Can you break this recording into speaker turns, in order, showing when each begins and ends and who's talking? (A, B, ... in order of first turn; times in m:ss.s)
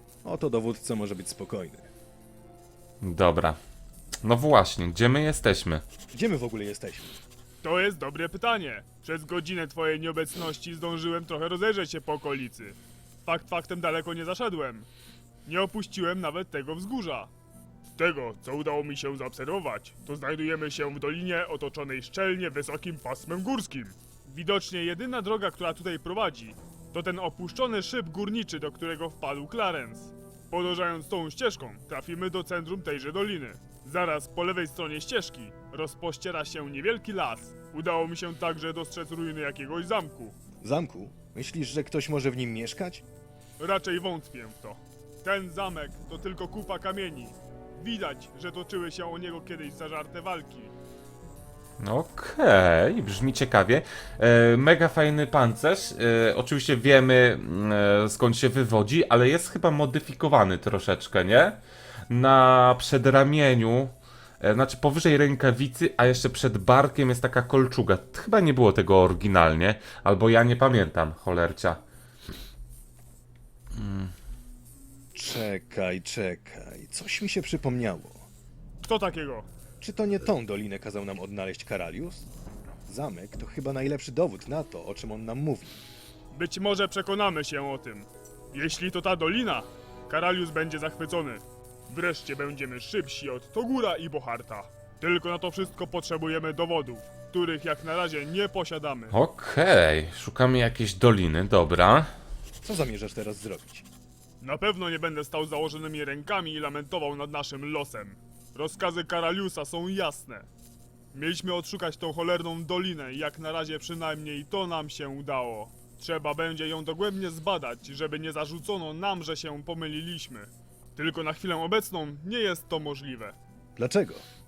0:00.2-0:01.9 A
0:03.0-0:03.6 B
0:04.2-0:05.8 B
0:06.1-0:07.2 A
0:07.6-0:14.9 C
0:15.4-0:17.3 C
0:18.0-0:40.4 C
0:40.6-0:43.0 A
0:43.6-0:50.7 C
0:51.8-1:01.6 B
1:02.1-1:11.8 B
1:13.7-1:14.1 B
1:15.1-1:18.3 A
1:18.8-1:19.5 C
1:19.8-1:22.3 A
1:22.9-1:25.8 A
1:26.3-1:39.2 C
1:39.1-1:42.1 B
1:42.6-1:43.9 A
1:44.4-1:50.5 C
1:51.1-2:03.4 C
2:03.8-2:04.2 A